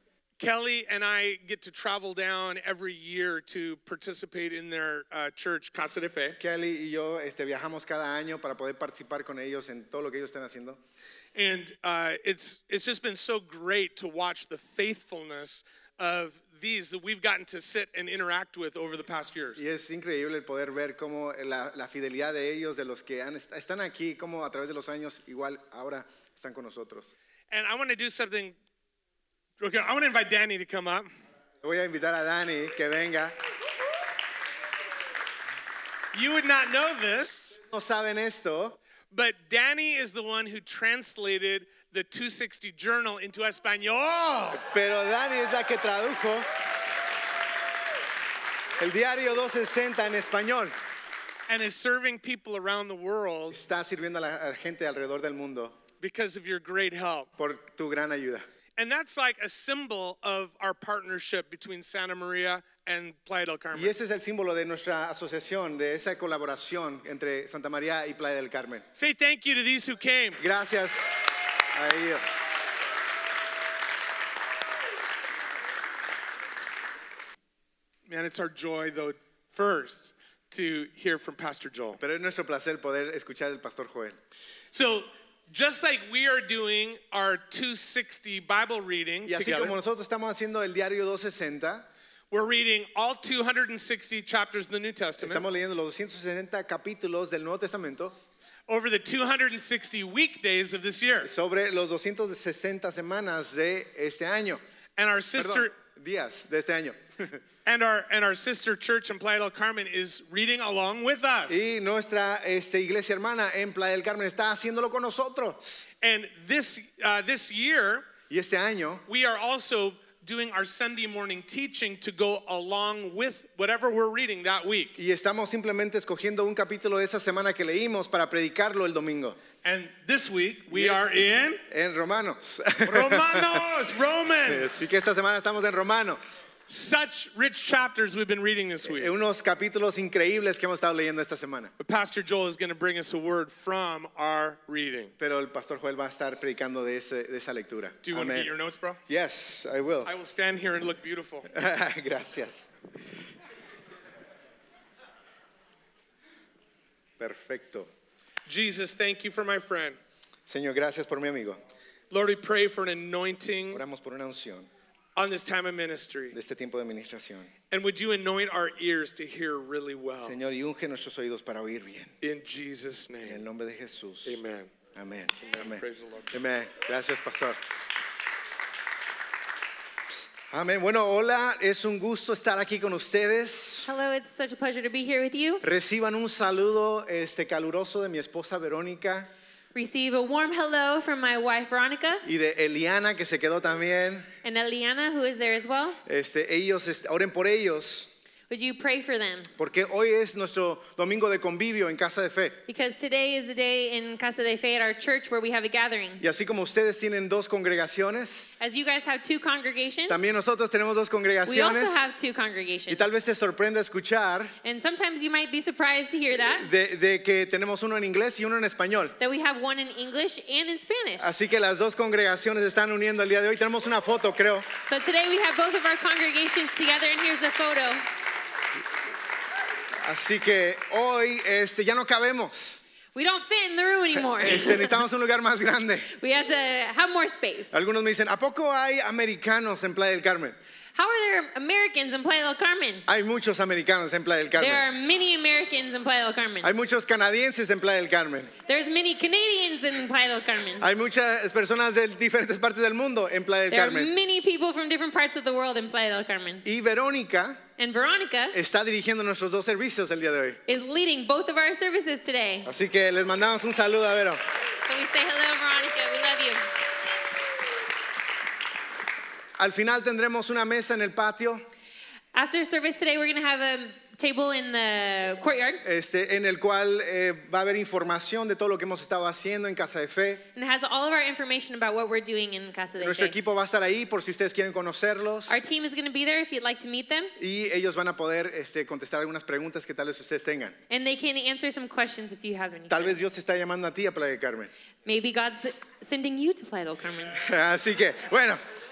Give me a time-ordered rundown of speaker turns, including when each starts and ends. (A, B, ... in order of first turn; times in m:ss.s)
0:00.4-0:06.4 A
0:06.4-0:10.8 B
0:11.4-0:19.6 A
0:19.6-0:27.1 B
0:27.5-0:28.6 A
0:29.6-0:31.1 A
0:31.6-0:33.4 B
0:36.1-0:37.6 A
0:37.7-0:38.8 B
0:39.1-0:44.6 A
0:44.5-0:46.5 B
0:48.8-0:50.7 B
0:51.5-0:53.6 A
0:53.5-0:55.8 B
0:56.0-0:57.3 A
0:57.4-0:58.5 B
0:58.8-1:03.9 A
1:03.7-1:08.8 B
1:09.0-1:10.4 A
1:10.4-1:11.1 B
1:11.7-1:12.5 B
1:18.1-1:22.0 A
1:22.0-1:24.2 B
1:24.7-1:29.8 A
1:29.3-1:31.9 B
1:32.3-1:35.4 A
1:35.2-1:38.2 B
1:38.7-1:41.3 A
1:41.2-1:44.6 B
1:45.0-1:45.7 A
1:45.4-1:47.4 B
1:47.7-1:51.7 A
1:51.5-1:55.9 B
1:56.0-1:58.1 A
1:58.3-1:59.0 B
1:59.1-2:05.0 A
2:05.0-2:09.4 B
2:09.6-2:11.6 A
2:10.7-2:11.0 B
2:11.7-2:13.6 B
2:12.8-2:15.0 A
2:14.5-2:16.5 B
2:16.7-2:19.1 A
2:18.8-2:21.7 B
2:21.8-2:25.1 A
2:25.2-2:28.5 B
2:28.0-2:29.0 A
2:29.1-2:30.1 B
2:30.0-2:31.5 A
2:31.5-2:32.8 B
2:37.2-2:37.9 B
2:38.5-2:40.0 A
2:40.5-2:41.6 B
2:42.1-2:43.8 A
2:43.7-2:44.7 B
2:45.2-2:46.4 A
2:46.3-2:47.5 B
2:47.7-2:50.4 A
2:50.2-2:52.1 B
2:52.2-2:53.4 A
2:53.2-2:54.4 B
2:54.2-2:54.7 A
2:55.0-2:57.6 B
2:55.6-2:56.3 A
3:00.5-3:03.9 B
3:03.8-3:05.6 C
3:05.6-3:09.3 B
3:09.7-3:12.3 C
3:12.2-3:14.3 B
3:14.4-3:16.0 C
3:16.1-3:18.1 B
3:18.5-3:19.5 C
3:19.6-3:22.6 B
3:22.7-3:26.2 C
3:26.2-3:28.5 B
3:28.6-3:30.3 C
3:30.1-3:32.1 B
3:31.5-3:33.1 C
3:32.9-3:34.5 B
3:34.6-3:36.7 C
3:36.4-3:39.2 B
3:39.2-3:41.4 C
3:41.2-3:44.7 B
3:44.8-3:48.0 C
3:50.0-3:52.8 B
3:53.2-3:55.0 C
3:54.3-3:56.1 B
3:56.1-3:57.7 C
3:57.7-4:00.6 B
4:01.0-4:03.1 C
4:03.1-4:04.8 B
4:04.6-4:06.7 C
4:06.6-4:08.5 B
4:08.7-4:10.9 C
4:10.8-4:14.1 B
4:13.7-4:16.6 C
4:16.6-4:17.6 B
4:17.8-4:18.6 C
4:18.5-4:20.6 B
4:20.7-4:22.7 C
4:22.7-4:24.4 B
4:24.8-4:26.7 C
4:29.6-4:31.6 B
4:32.3-4:35.8 C
4:35.8-4:40.4 B
4:40.6-4:43.4 C
4:43.0-4:45.6 B
4:45.5-4:47.4 C
4:47.4-4:50.8 B
4:50.9-4:53.2 C
4:52.9-4:54.7 B
4:55.0-4:57.4 C
4:57.4-4:58.6 B